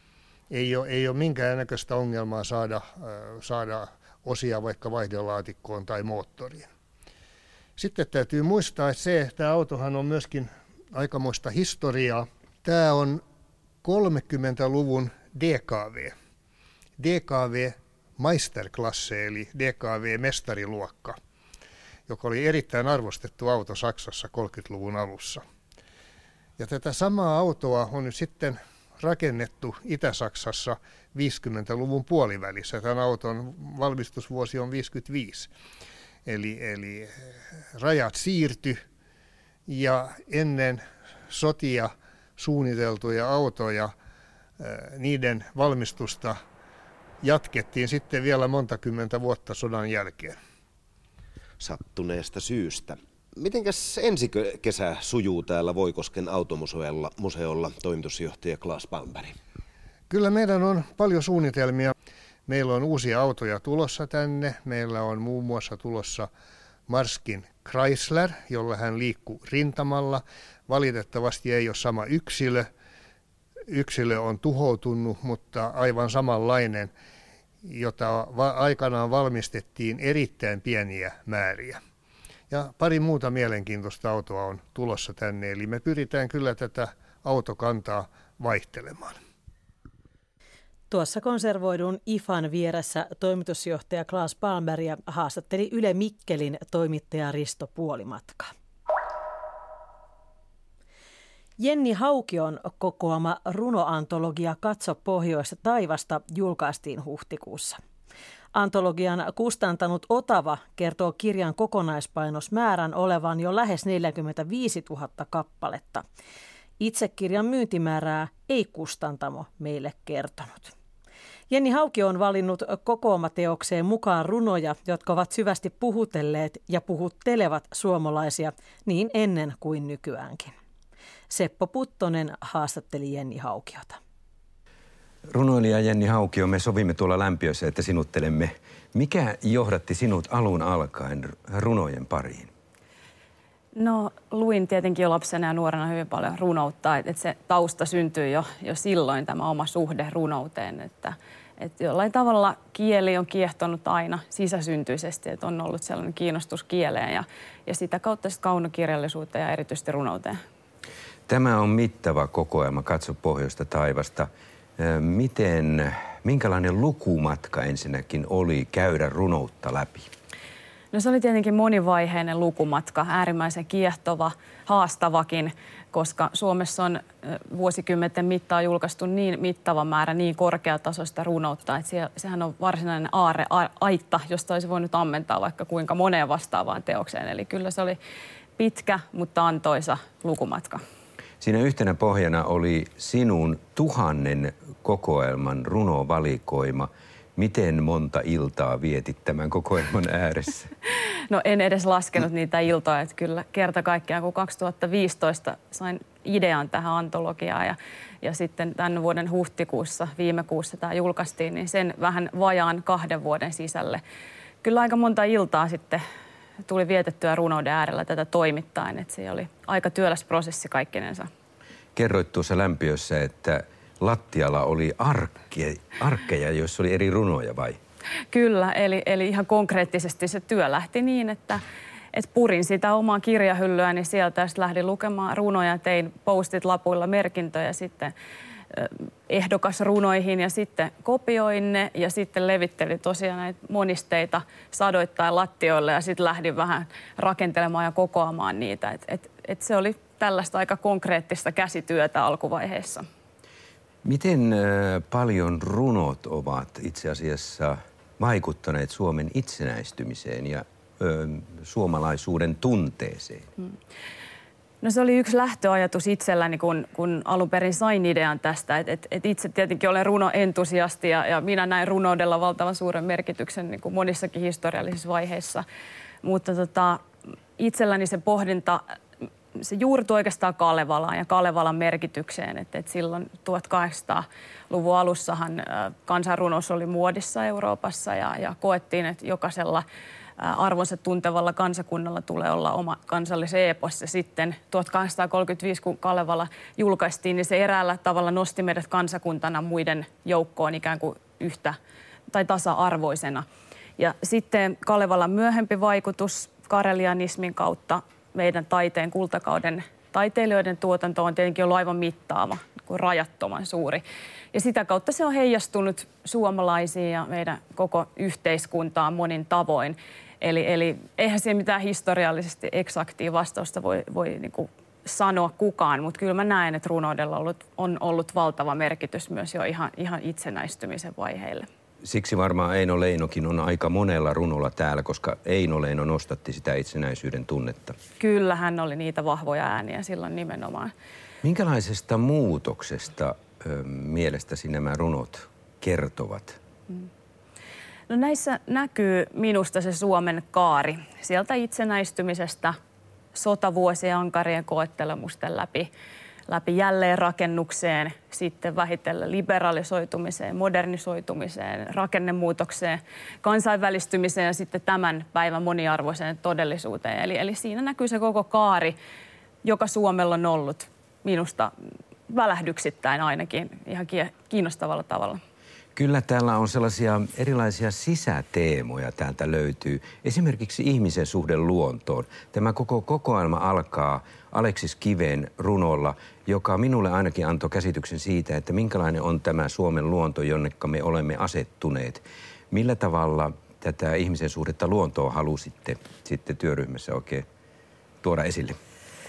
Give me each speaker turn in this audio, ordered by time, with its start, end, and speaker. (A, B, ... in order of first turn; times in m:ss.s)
0:00.5-0:06.7 A
0:07.8-0:13.2 A
0:13.8-0:16.1 A
0:17.0-0:21.2 A
0:22.1-0:25.4 A
0:26.6-0:35.5 A
0:36.2-0:38.8 A
0:39.7-0:43.9 A
0:44.6-0:46.4 A
0:47.2-0:50.4 A
0:51.6-0:59.3 B
1:00.1-1:01.9 A
1:02.5-1:06.3 A
1:06.9-1:12.7 A
1:13.7-1:16.9 A
1:17.6-1:21.8 A
1:22.5-1:29.2 A
1:30.9-1:38.5 C
1:41.6-1:47.8 C
1:48.5-1:56.0 C
1:56.8-2:00.7 C
2:01.5-2:10.5 C
2:11.3-2:14.0 C
2:15.3-2:22.5 D
2:23.7-2:40.4 E
2:41.3-2:50.1 D
2:50.9-3:08.0 E
3:08.6-3:10.8 E
3:11.4-3:20.7 D
3:21.3-3:34.0 E
3:34.6-3:36.0 E
3:36.6-3:41.3 E
3:42.0-3:47.8 D
3:48.3-3:58.1 E
3:58.7-4:13.1 E
4:14.0-4:23.5 D
4:24.8-4:35.6 E
4:36.2-4:37.0 E
4:37.6-4:38.8 E
4:39.6-4:49.8 E
4:50.4-5:01.8 E
5:02.3-5:03.4 E
5:04.0-5:31.7 E
5:32.0-5:38.0 D
5:38.2-5:40.9 E
5:41.4-5:46.6 D
5:48.1-5:52.8 E
5:53.3-5:55.9 E
5:56.5-6:09.0 E
6:09.6-6:11.7 E
6:12.3-6:15.4 E
6:16.0-6:37.4 D
6:38.2-6:38.8 D